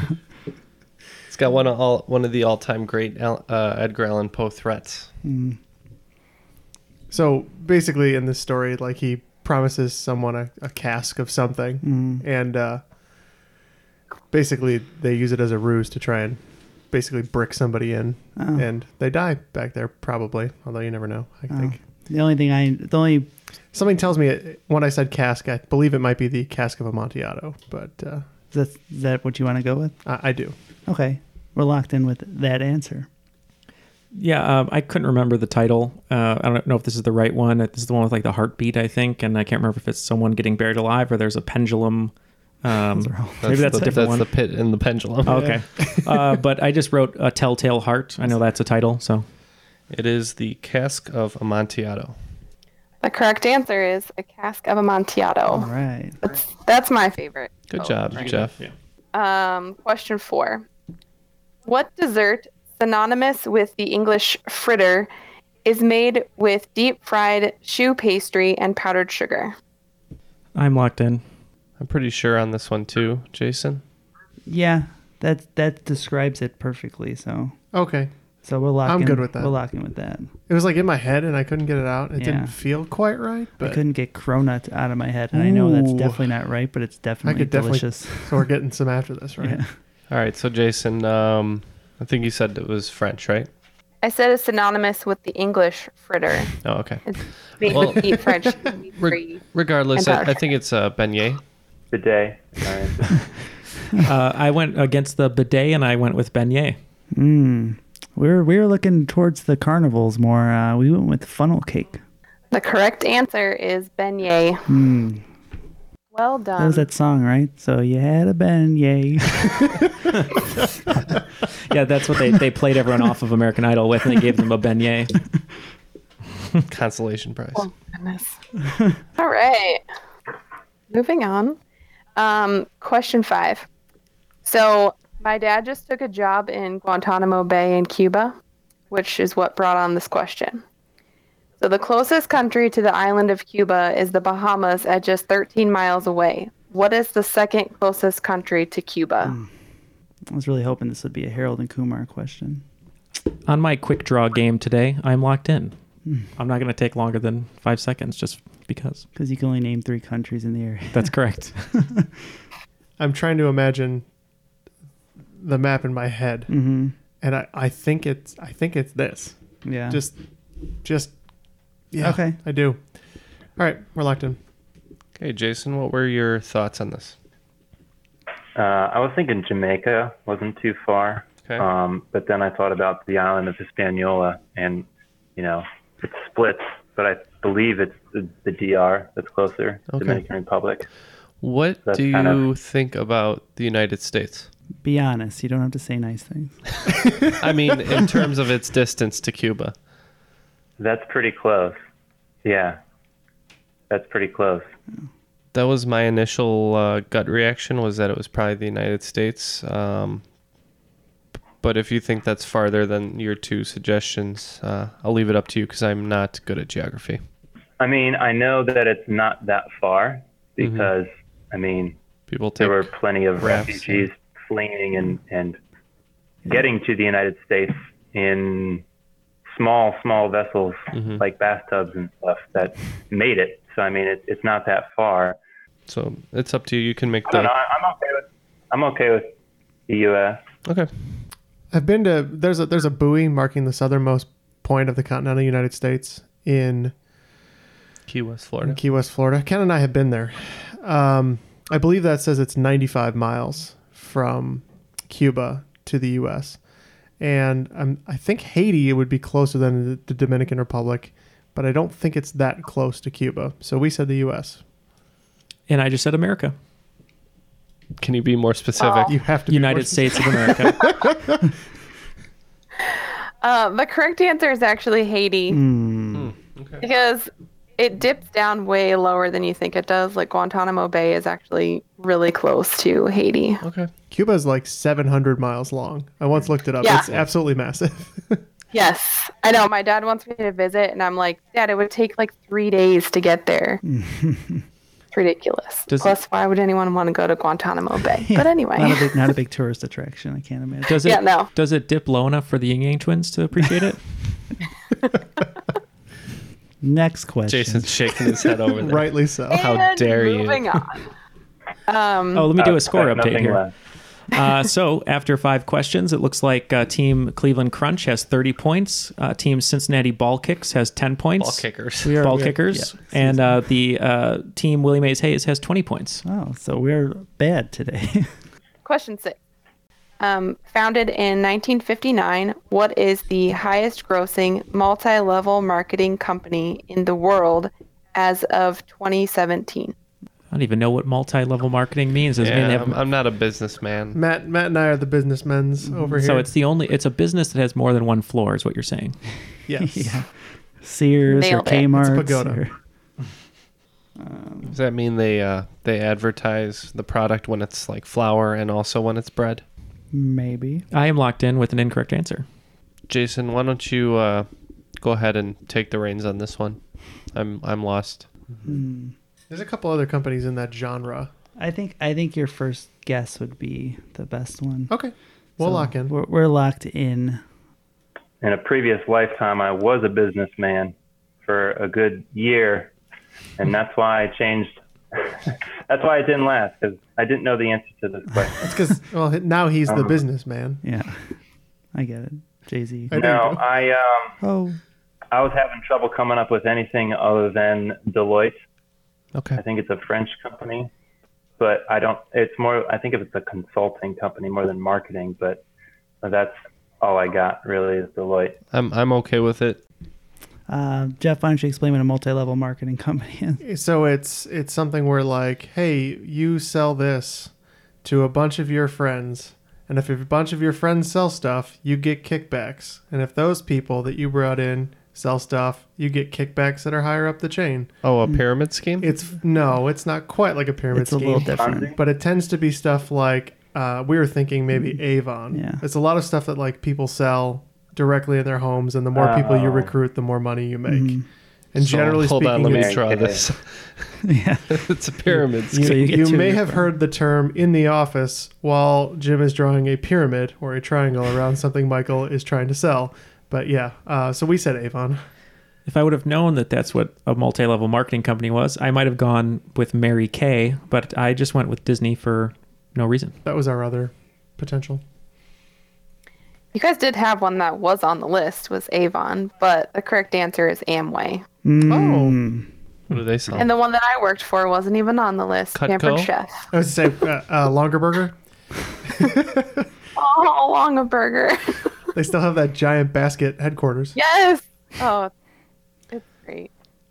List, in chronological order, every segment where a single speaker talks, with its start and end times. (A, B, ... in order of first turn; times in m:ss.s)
0:01.3-0:05.1 A
0:05.2-0:05.6 B
0:07.1-0:12.8 C
0:11.8-0:12.2 B
0:14.3-0:21.8 C
0:18.4-0:18.7 B
0:21.5-0:23.3 B
0:23.7-0:28.2 C
0:28.5-0:30.0 B
0:30.0-0:30.6 C
0:30.9-0:33.1 B
0:34.1-0:44.3 D
0:43.0-0:44.0 B
0:43.4-0:45.6 A
0:45.2-0:49.3 D
0:45.4-0:45.8 C
0:49.9-0:52.2 A
0:53.0-0:55.7 E
0:55.5-0:56.2 B
0:56.2-0:58.0 E
0:57.7-0:58.6 A
0:58.2-0:58.7 D
0:59.1-1:00.6 E
1:01.7-1:05.1 E
1:05.6-1:09.6 E
1:10.6-1:11.2 D
1:11.8-1:13.8 A
1:14.5-1:17.6 B
1:17.7-1:18.1 C
1:18.4-1:20.3 B
1:18.8-1:19.6 C
1:20.5-1:23.8 C
1:22.2-1:22.6 B
1:23.6-1:28.4 B
1:25.3-1:26.2 C
1:27.2-1:29.6 C
1:29.4-1:29.7 B
1:30.1-1:33.5 A
1:34.0-1:40.4 E
1:36.6-1:38.3 A
1:39.0-1:41.4 A
1:41.9-1:43.1 F
1:44.0-1:46.8 D
1:47.1-1:52.0 B
1:52.5-1:54.6 E
1:54.7-1:55.3 B
1:56.1-1:56.9 E
1:56.6-1:59.7 B
2:01.7-2:05.2 D
2:06.7-2:07.7 A
2:07.6-2:08.4 E
2:09.2-2:09.8 E
2:10.9-2:11.6 E
2:12.2-2:13.7 E
2:14.5-2:18.3 E
2:18.9-2:20.6 E
2:21.6-2:29.3 E
2:29.2-2:29.5 B
2:30.3-2:32.6 B
2:33.5-2:35.8 D
2:36.0-2:36.3 B
2:36.4-2:39.0 D
2:39.2-2:41.2 B
2:40.9-2:41.7 D
2:41.7-2:42.1 B
2:43.0-2:44.0 C
2:45.4-2:46.6 C
2:46.5-2:47.0 B
2:47.2-2:50.2 C
2:49.6-2:50.0 B
2:50.8-2:51.2 C
2:51.9-2:52.9 C
2:52.0-2:52.4 B
2:53.6-2:54.4 C
2:55.2-2:57.2 A
2:58.6-3:10.9 F
3:09.9-3:10.2 A
3:11.4-3:14.5 A
3:11.8-3:12.4 F
3:14.8-3:16.6 B
3:17.4-3:19.8 A
3:20.8-3:21.8 F
3:22.4-3:22.8 F
3:23.9-3:24.7 F
3:25.5-3:30.2 A
3:31.6-3:37.2 A
3:37.8-3:42.0 F
3:40.6-3:40.9 A
3:42.3-3:44.1 A
3:42.6-3:45.6 F
3:46.5-3:48.8 F
3:49.5-3:55.4 F
3:50.9-3:51.2 A
3:55.9-3:57.5 A
3:57.3-3:59.3 F
3:59.9-4:00.4 F
4:01.7-4:06.9 C
4:08.1-4:08.8 A
4:08.6-4:16.6 C
4:17.2-4:24.6 C
4:25.7-4:26.5 D
4:28.0-4:29.1 A
4:28.8-4:29.1 E
4:29.1-4:31.4 C
4:29.5-4:30.9 D
4:32.8-4:35.6 E
4:35.5-4:36.3 B
4:36.2-4:36.8 A
4:36.8-4:43.6 E
4:43.6-4:43.9 A
4:44.1-4:48.4 C
4:46.8-4:47.1 E
4:48.7-4:53.8 E
4:53.8-4:54.6 B
4:55.1-4:59.1 E
4:55.9-4:56.2 D
4:58.3-5:00.9 B
5:00.9-5:04.0 D
5:01.0-5:01.5 E
5:06.8-5:08.0 B
5:07.5-5:10.8 A
5:08.8-5:09.7 C
5:09.5-5:11.0 E
5:11.9-5:12.5 E
5:12.3-5:13.6 D
5:12.6-5:13.7 F
5:14.3-5:26.2 D
5:21.4-5:22.3 A
5:22.2-5:23.6 B
5:26.2-5:28.3 B
5:28.8-5:29.4 E
5:30.2-5:39.9 E
5:40.5-5:43.0 D
5:42.4-5:44.2 A
5:44.2-5:46.5 C
5:45.8-5:46.2 B
5:46.2-5:49.2 D
5:49.7-5:50.2 C
5:49.8-5:52.7 B
5:51.3-5:51.8 E
5:51.9-5:52.6 C
5:54.2-5:54.8 B
5:54.7-5:59.6 A
6:00.1-6:00.9 B
6:00.9-6:02.4 D
6:03.1-6:04.5 A
6:05.0-6:08.3 A
6:08.6-6:09.1 B
6:09.5-6:11.3 C
6:11.6-6:15.0 B
6:14.9-6:16.2 C
6:15.6-6:17.4 B
6:18.4-6:20.9 F
6:21.4-6:22.9 F
6:23.6-6:28.6 F
6:28.6-6:30.8 C
6:29.9-6:30.2 F
6:30.8-6:31.4 B
6:32.0-6:33.2 B
6:33.1-6:33.6 C
6:33.1-6:34.4 F
6:34.4-6:34.8 B
6:35.3-6:38.6 F
6:39.4-6:39.6 A
6:39.6-6:40.9 F
6:41.6-6:45.6 F
6:46.2-6:48.6 F
6:48.7-6:49.8 A
6:50.7-6:53.6 B
6:53.6-6:57.5 C
6:58.0-7:07.9 C
7:08.0-7:09.1 A
7:09.0-7:23.0 C
7:10.9-7:11.9 B
7:11.6-7:12.0 F
7:14.7-7:15.0 B
7:15.5-7:15.8 B
7:19.2-7:19.9 F
7:20.9-7:21.2 B
7:21.8-7:24.2 A
7:22.6-7:23.4 F
7:24.2-7:26.9 B
7:24.7-7:26.0 A
7:25.7-7:35.2 C
7:35.9-7:43.4 D
7:43.4-7:45.0 C
7:46.7-7:51.4 E
7:51.6-7:52.7 B
7:51.9-7:52.4 C
7:53.1-7:53.7 A
7:53.6-7:56.6 E
7:55.8-7:56.3 A
7:56.7-7:58.4 C
7:59.1-7:59.9 C
8:00.2-8:01.8 E
8:02.2-8:04.2 C
8:04.2-8:05.3 E
8:06.1-8:06.7 E